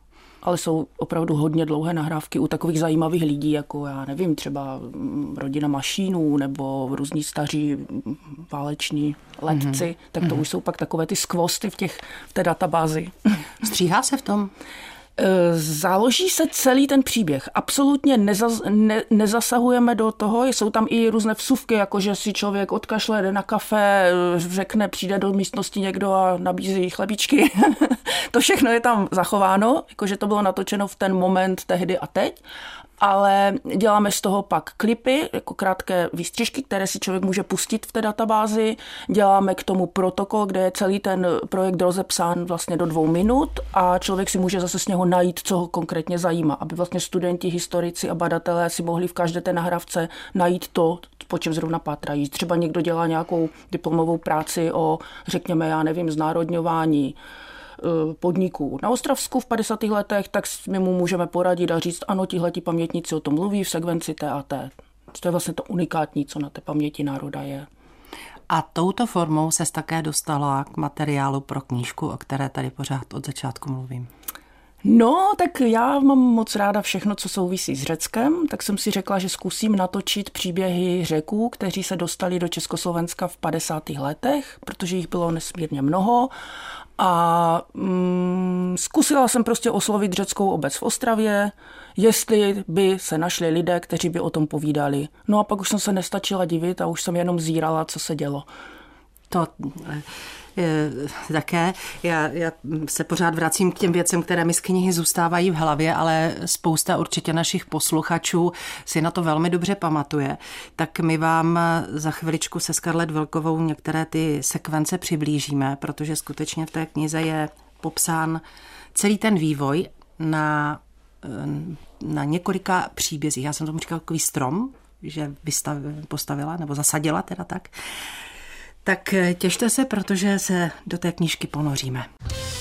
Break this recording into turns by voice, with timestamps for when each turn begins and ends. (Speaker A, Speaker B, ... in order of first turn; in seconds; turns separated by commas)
Speaker A: 0.4-13.3, Speaker B: 13.6-14.5, Speaker A: 15.2-32.4, Speaker A: 33.0-57.2, Speaker A: 57.8-67.7, Speaker B: 68.5-74.1, Speaker A: 74.8-86.3, Speaker A: 87.0-98.5, Speaker B: 99.3-118.4, Speaker B: 119.0-127.7, Speaker B: 128.8-132.1